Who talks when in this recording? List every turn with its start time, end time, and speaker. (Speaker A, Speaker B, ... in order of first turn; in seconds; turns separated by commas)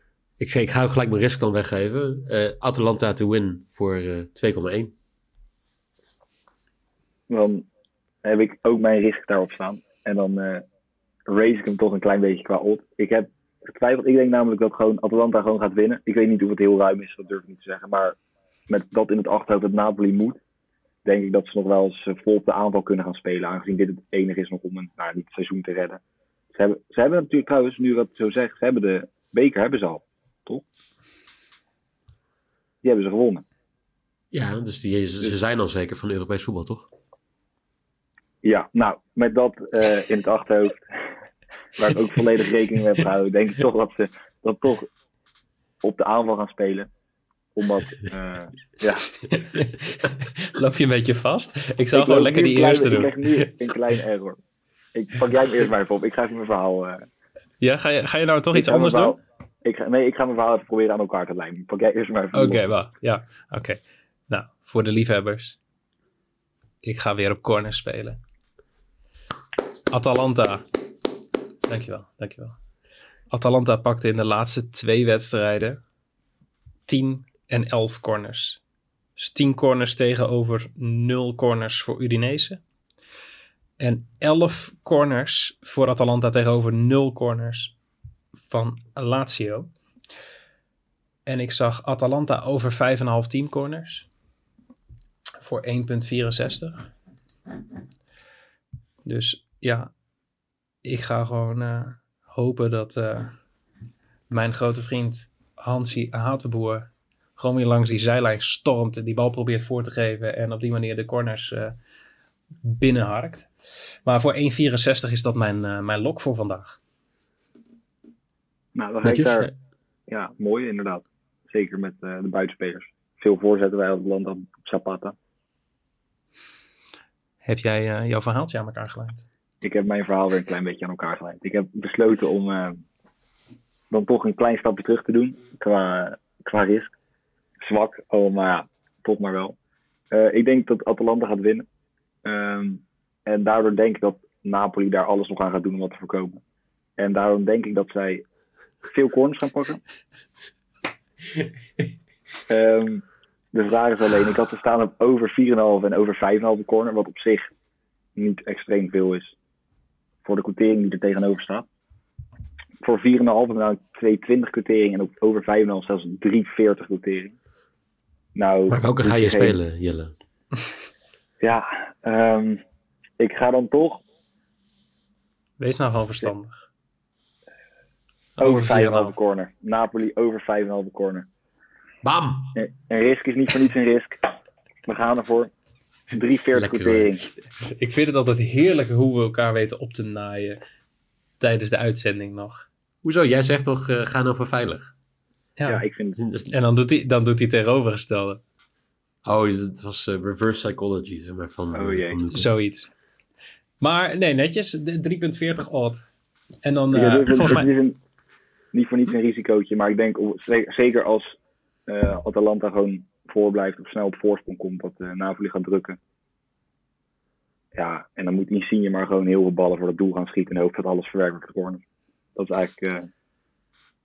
Speaker A: 0.4-4.9, Speaker B: 7.3-7.7, Speaker B: 8.2-10.6, Speaker B: 11.3-18.2, Speaker B: 18.7-20.4, Speaker B: 21.1-26.0, Speaker B: 26.6-30.6, Speaker B: 32.8-33.4, Speaker A: 34.3-36.9, Speaker B: 38.4-40.9, Speaker B: 41.8-44.9, Speaker B: 45.8-46.9, Speaker B: 47.5-49.1, Speaker C: 49.3-53.8, Speaker B: 51.9-54.4, Speaker B: 55.0-57.0, Speaker C: 57.6-59.2, Speaker B: 58.5-62.6, Speaker C: 62.3-65.6, Speaker C: 66.8-68.2, Speaker C: 69.9-70.7, Speaker C: 71.7-72.6, Speaker C: 73.3-75.8, Speaker C: 76.9-78.6, Speaker C: 79.2-82.6, Speaker C: 83.8-87.8, Speaker C: 88.5-89.7, Speaker C: 91.3-94.1, Speaker C: 95.4-96.8, Speaker C: 99.0-99.9, Speaker C: 100.8-103.3, Speaker C: 104.3-111.8, Speaker C: 112.6-113.5, Speaker C: 114.0-116.8, Speaker B: 118.8-119.5, Speaker A: 119.0-119.5, Speaker B: 120.1-125.2, Speaker C: 127.4-129.2, Speaker B: 129.6-132.8, Speaker B: 133.9-136.9, Speaker B: 137.6-139.6, Speaker B: 140.1-141.7, Speaker B: 142.2-146.4, Speaker B: 147.0-148.2, Speaker B: 148.9-149.8, Speaker B: 152.5-157.5, Speaker B: 158.2-159.3, Speaker B: 160.2-161.7, Speaker B: 162.8-167.3, Speaker B: 168.3-169.6, Speaker A: 168.7-170.1, Speaker B: 171.4-172.6, Speaker B: 173.2-174.0, Speaker C: 175.6-176.5, Speaker C: 178.4-179.2, Speaker B: 178.4-181.3, Speaker A: 182.0-182.6, Speaker B: 182.6-184.3, Speaker B: 184.9-185.5, Speaker B: 186.1-187.3, Speaker A: 186.6-187.1, Speaker C: 187.7-190.6, Speaker C: 191.4-192.6, Speaker A: 193.0-194.9, Speaker C: 195.6-195.8, Speaker B: 195.7-196.2, Speaker A: 196.2-196.5, Speaker C: 196.5-198.4, Speaker A: 199.2-202.5, Speaker B: 201.7-202.2, Speaker C: 202.3-202.9, Speaker C: 203.8-206.0, Speaker C: 206.6-207.7, Speaker B: 206.9-208.0, Speaker B: 208.7-211.3, Speaker B: 211.9-216.0, Speaker B: 217.8-221.8, Speaker B: 222.4-223.1